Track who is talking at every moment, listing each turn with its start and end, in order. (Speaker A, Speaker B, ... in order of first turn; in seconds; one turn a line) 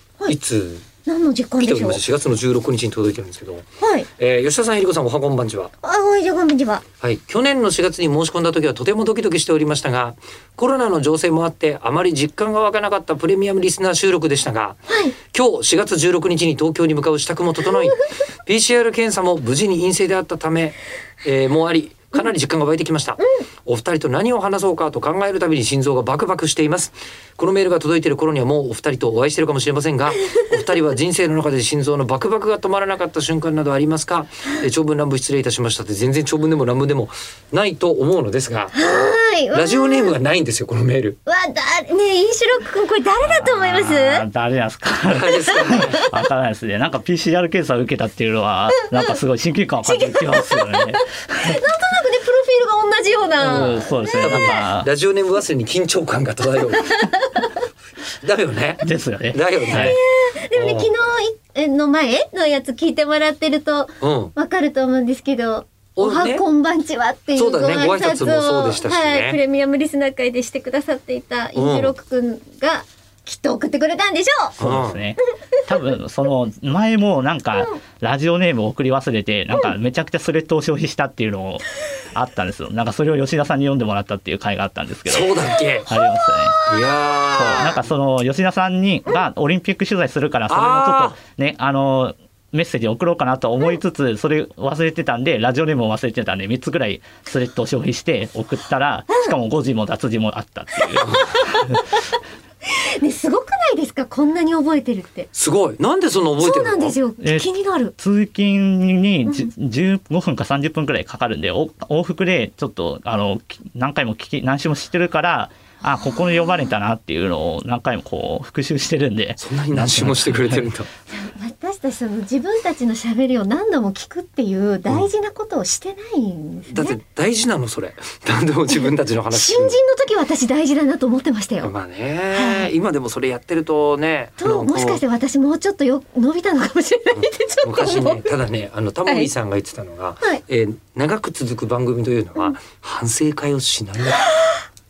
Speaker A: 0.3-0.8
Speaker B: 1.1-2.0
Speaker A: 1.6-5.7
Speaker B: 3.8-4.1
Speaker B: 5.8-6.8
Speaker A: 7.0-38.7
Speaker B: 14.9-15.1
Speaker B: 38.7-40.1
Speaker A: 39.5-41.2
Speaker B: 41.2-44.2
Speaker C: 43.2-51.0
Speaker A: 45.1-46.0
Speaker B: 45.6-46.1
Speaker B: 49.8-54.6
Speaker C: 53.4-54.9
Speaker A: 53.4-57.0
Speaker B: 56.9-57.5
Speaker A: 58.2-60.0
Speaker C: 58.8-60.0
Speaker B: 59.7-74.6
Speaker A: 60.5-60.9
Speaker A: 64.0-64.3
Speaker A: 66.0-66.4
Speaker A: 67.3-69.4
Speaker A: 71.5-71.9
Speaker C: 74.6-86.6
Speaker A: 74.6-75.0
Speaker A: 85.1-85.9
Speaker B: 85.9-86.7
Speaker A: 86.7-87.8
Speaker C: 87.3-101.8
Speaker A: 90.5-91.2
Speaker B: 100.9-101.7
Speaker B: 102.7-105.3
Speaker A: 105.3-107.0
Speaker B: 106.4-107.9
Speaker C: 107.2-107.5
Speaker C: 108.0-120.7
Speaker A: 119.4-120.9
Speaker B: 121.2-127.0
Speaker A: 126.7-129.8
Speaker B: 128.7-131.7
Speaker A: 131.6-135.0
Speaker B: 132.3-132.7
Speaker B: 134.4-138.3
Speaker A: 137.2-144.2
Speaker B: 144.1-144.6